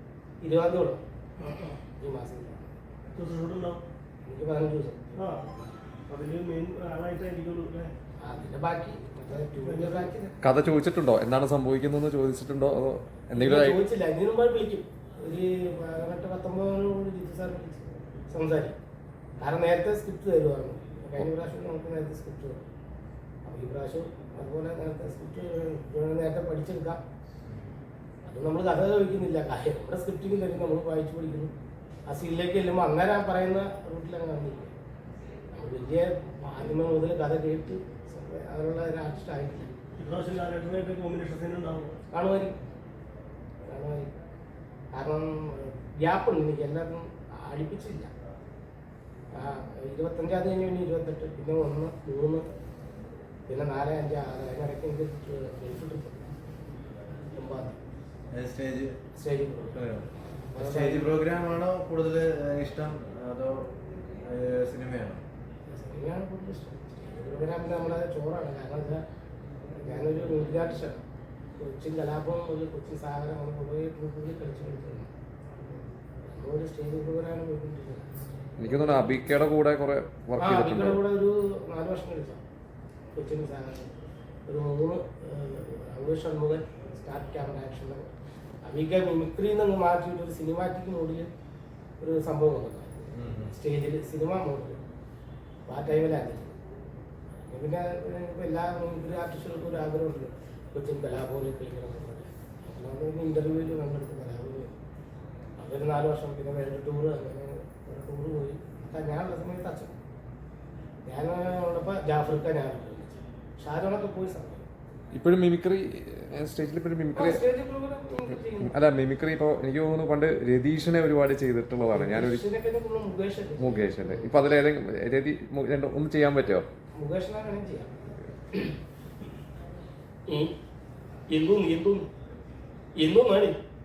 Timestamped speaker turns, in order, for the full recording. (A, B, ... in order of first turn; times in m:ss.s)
0:00.4-0:01.0 A
0:01.4-0:01.8 B
0:02.0-0:02.7 A
0:03.1-0:03.8 B
0:04.2-0:05.6 A
0:05.2-0:05.5 B
0:06.1-0:07.9 B
0:08.2-0:10.3 A
0:09.6-0:10.1 B
0:10.4-0:13.8 C
0:13.3-0:18.7 A
0:19.4-0:22.6 A
0:23.4-0:27.0 A
0:28.2-0:31.5 A
0:32.1-0:34.7 A
0:35.5-0:39.7 A
0:40.0-0:42.0 B
0:42.1-0:42.6 A
0:43.7-0:44.1 A
0:44.9-0:48.1 A
0:49.3-0:52.4 A
0:53.5-0:56.2 A
0:57.3-0:57.8 A
0:58.3-0:59.0 D
0:59.2-0:59.8 A
0:59.7-1:05.2 D
1:00.5-1:01.2 A
1:05.7-1:09.0 A
1:09.8-1:11.0 A
1:11.6-1:15.1 A
1:16.2-1:19.0 A
1:18.6-1:21.0 C
1:20.4-1:22.4 A
1:23.1-1:23.9 A
1:24.5-1:28.1 A
1:28.6-1:31.3 A
1:32.0-1:34.8 A
1:33.2-1:33.5 D
1:35.7-1:36.5 A
1:37.3-1:44.7 A
1:45.6-1:49.9 A
1:51.0-1:54.6 A
1:55.1-1:57.4 C
1:57.1-1:58.7 A
1:58.6-2:02.4 C
2:01.9-2:04.4 A
2:03.6-2:06.6 C
2:07.0-2:07.9 A
2:10.3-2:10.5 A
2:11.3-2:12.0 A
2:13.0-2:13.6 A